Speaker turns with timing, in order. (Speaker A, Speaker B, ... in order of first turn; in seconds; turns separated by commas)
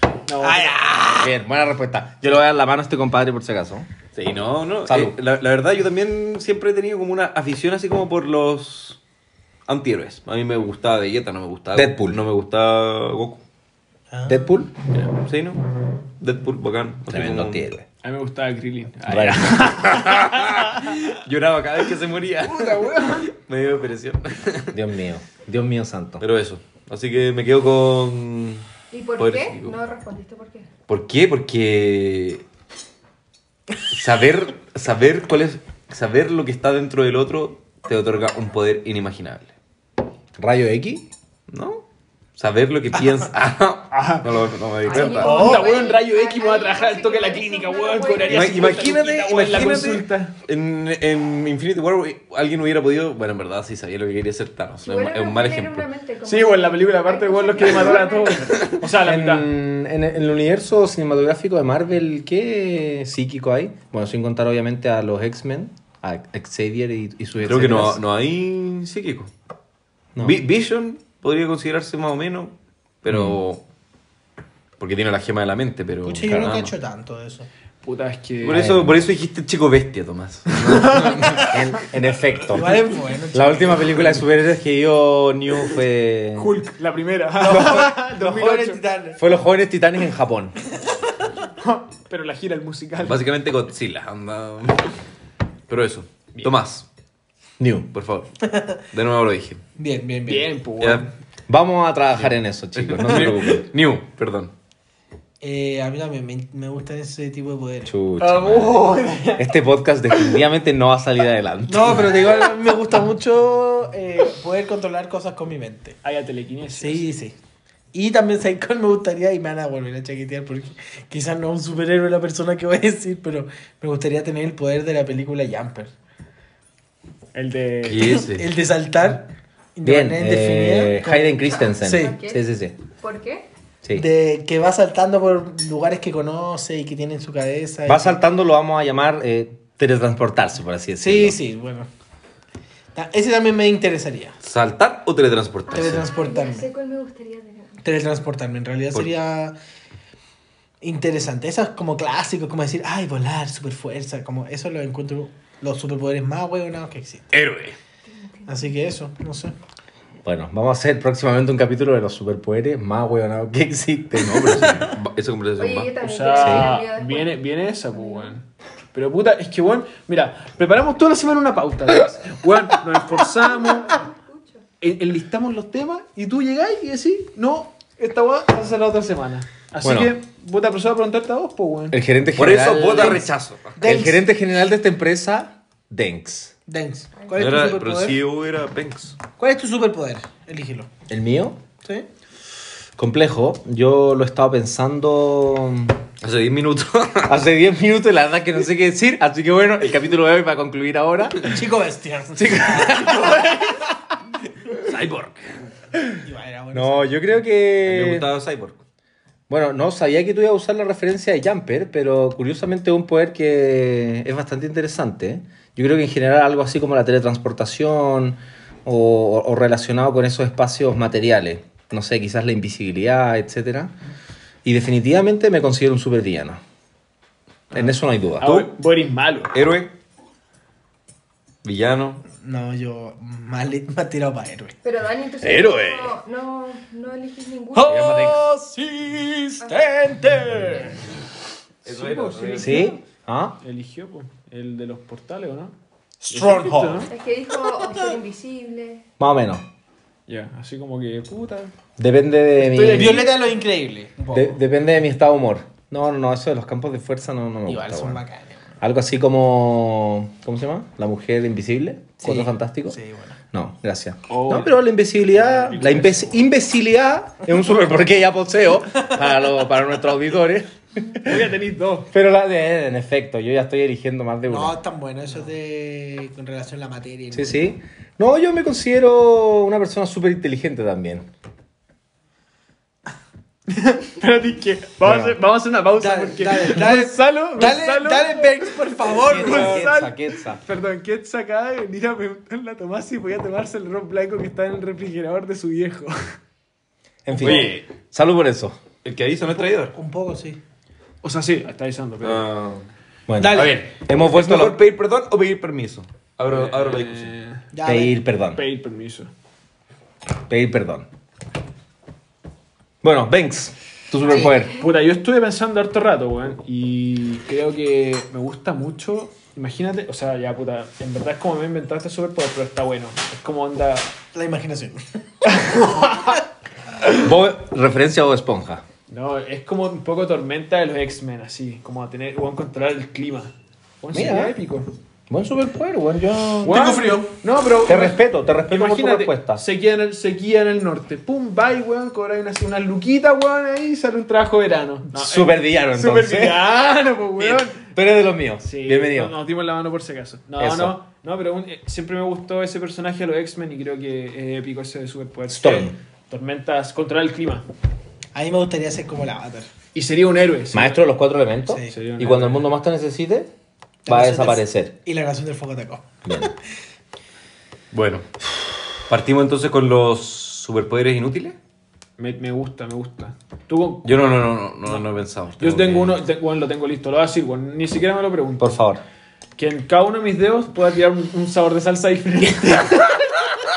Speaker A: 0.3-0.8, Speaker B: 0.4-1.3, Speaker C: 1.2-3.9, Speaker D: 4.1-9.0, Speaker C: 4.9-5.1, Speaker D: 9.7-13.4, Speaker C: 11.7-12.2, Speaker B: 14.1-14.4, Speaker C: 14.3-14.7, Speaker D: 14.9-15.6, Speaker D: 16.2-17.7, Speaker C: 17.1-17.9, Speaker A: 18.0-20.3, Speaker C: 19.1-19.7, Speaker D: 19.9-24.8, Speaker A: 22.4-23.3, Speaker C: 24.7-26.2, Speaker D: 26.2-29.8, Speaker E: 28.9-30.7, Speaker D: 30.9-32.4, Speaker D: 33.9-39.5, Speaker C: 40.4-41.0, Speaker D: 41.5-41.8, Speaker D: 42.4-45.6, Speaker A: 43.9-44.3, Speaker E: 44.8-48.9, Speaker A: 44.9-50.3, Speaker B: 45.2-45.7, Speaker D: 48.3-55.9, Speaker E: 54.8-58.6, Speaker A: 56.2-59.5, Speaker C: 59.0-68.0, Speaker D: 67.4-69.3, Speaker D: 70.2-73.6, Speaker C: 73.1-73.4, Speaker D: 74.8-76.7, Speaker B: 76.0-77.5, Speaker A: 77.8-78.7, Speaker D: 78.4-81.5, Speaker C: 78.5-79.1, Speaker A: 80.7-81.5, Speaker C: 81.4-86.6, Speaker B: 82.5-84.1, Speaker A: 86.3-88.8, Speaker B: 87.4-89.2, Speaker C: 87.4-88.5, Speaker C: 89.2-90.6, Speaker A: 91.6-93.3, Speaker D: 93.0-94.9, Speaker D: 95.7-96.9, Speaker C: 97.6-97.9, Speaker D: 97.9-98.4, Speaker D: 98.9-99.6, Speaker B: 99.8-100.5, Speaker A: 100.3-101.1, Speaker D: 100.8-101.1, Speaker C: 101.5-103.6, Speaker D: 102.2-104.5, Speaker B: 105.4-107.9, Speaker C: 107.8-112.2, Speaker A: 108.2-109.5, Speaker B: 111.7-116.0, Speaker A: 116.0-117.1, Speaker B: 116.8-117.3, Speaker B: 117.9-125.9, Speaker A: 127.3-128.2, Speaker D: 127.8-128.5, Speaker B: 128.0-132.1, Speaker C: 129.8-132.7, Speaker E: 131.6-132.4, Speaker E: 133.0-133.5, Speaker B: 133.9-138.2, Speaker C: 137.9-141.4, Speaker B: 141.0-141.9, Speaker B: 142.9-144.3, Speaker D: 144.4-146.1, Speaker E: 145.7-147.8, Speaker B: 145.7-146.7, Speaker B: 147.8-149.6, Speaker B: 150.8-157.2, Speaker D: 157.3-157.8, Speaker E: 158.1-158.9, Speaker B: 158.5-159.5, Speaker C: 160.2-164.8, Speaker D: 164.2-166.0, Speaker E: 165.6-168.3, Speaker A: 166.0-174.0, Speaker C: 166.4-166.7, Speaker E: 173.6-174.6, Speaker A: 174.8-182.0, Speaker C: 179.8-180.2, Speaker C: 181.9-183.3, Speaker D: 182.3-183.8, Speaker B: 182.9-183.2, Speaker B: 183.8-184.2, Speaker C: 183.8-186.5, Speaker B: 186.7-188.2, Speaker E: 187.1-187.6, Speaker D: 187.4-189.2, Speaker B: 189.4-190.9, Speaker C: 191.1-191.6, Speaker B: 191.8-192.1, Speaker C: 193.0-196.0, Speaker D: 196.2-197.4, Speaker C: 197.2-201.6, Speaker B: 201.5-203.4, Speaker C: 202.4-203.6, Speaker D: 204.7-205.6, Speaker B: 206.1-207.3, Speaker C: 206.7-208.3, Speaker D: 207.8-208.8, Speaker C: 209.5-223.9, Speaker C: 224.6-226.6, Speaker C: 227.7-228.5, Speaker A: 227.7-229.5, Speaker D: 228.4-228.7, Speaker D: 229.5-229.9, Speaker D: 231.6-232.2, Speaker B: 232.4-234.8, Speaker E: 234.8-238.0, Speaker D: 235.4-236.2, Speaker A: 237.7-239.5, Speaker D: 237.9-238.4, Speaker E: 239.6-239.9, Speaker B: 239.7-240.8, Speaker A: 240.4-240.9, Speaker D: 241.8-242.8, Speaker A: 241.8-243.0, Speaker C: 242.6-243.6, Speaker A: 243.6-245.7, Speaker B: 246.2-247.1, Speaker A: 246.3-247.1, Speaker E: 247.1-249.0, Speaker C: 249.2-249.6, Speaker A: 250.3-251.7, Speaker C: 252.0-253.3, Speaker A: 252.7-253.2, Speaker B: 252.7-254.6, Speaker C: 254.3-258.2, Speaker B: 257.6-258.6, Speaker C: 258.8-263.0, Speaker B: 262.2-263.4, Speaker C: 263.5-271.5, Speaker A: 264.3-266.4, Speaker A: 271.2-272.1, Speaker C: 272.1-274.7, Speaker B: 274.5-277.6, Speaker C: 277.3-281.3, Speaker A: 283.7-296.3, Speaker C: 285.0-285.4, Speaker B: 285.9-289.8, Speaker C: 289.2-290.6, Speaker C: 297.2-298.8, Speaker D: 297.4-297.9, Speaker D: 299.0-299.9, Speaker B: 299.5-300.6, Speaker A: 301.2-302.4, Speaker D: 302.2-302.9, Speaker C: 303.3-304.8, Speaker B: 303.4-303.8, Speaker D: 303.5-307.3, Speaker A: 306.4-307.6, Speaker B: 307.7-308.1, Speaker C: 307.8-308.6, Speaker A: 308.5-309.3, Speaker C: 310.5-311.1, Speaker C: 313.0-314.8, Speaker E: 314.3-314.6, Speaker A: 314.8-324.1, Speaker B: 324.3-325.0, Speaker A: 325.5-326.4, Speaker C: 327.1-328.8, Speaker A: 329.1-334.9, Speaker C: 334.1-334.6, Speaker C: 335.3-336.8, Speaker A: 336.6-347.8, Speaker B: 336.6-337.3, Speaker C: 337.9-339.6, Speaker C: 345.1-346.6, Speaker C: 347.4-349.3, Speaker A: 348.6-357.6, Speaker C: 350.6-350.9, Speaker C: 355.5-355.9, Speaker B: 358.3-359.7, Speaker A: 359.9-361.0, Speaker C: 360.7-363.5, Speaker B: 361.7-361.9, Speaker A: 361.9-362.7, Speaker B: 364.1-366.5, Speaker C: 364.1-364.9, Speaker C: 366.2-366.5, Speaker D: 367.9-368.3, Speaker D: 369.0-371.6, Speaker A: 372.2-374.1, Speaker D: 374.0-376.2, Speaker A: 375.6-378.8, Speaker C: 378.6-379.0, Speaker A: 379.6-383.2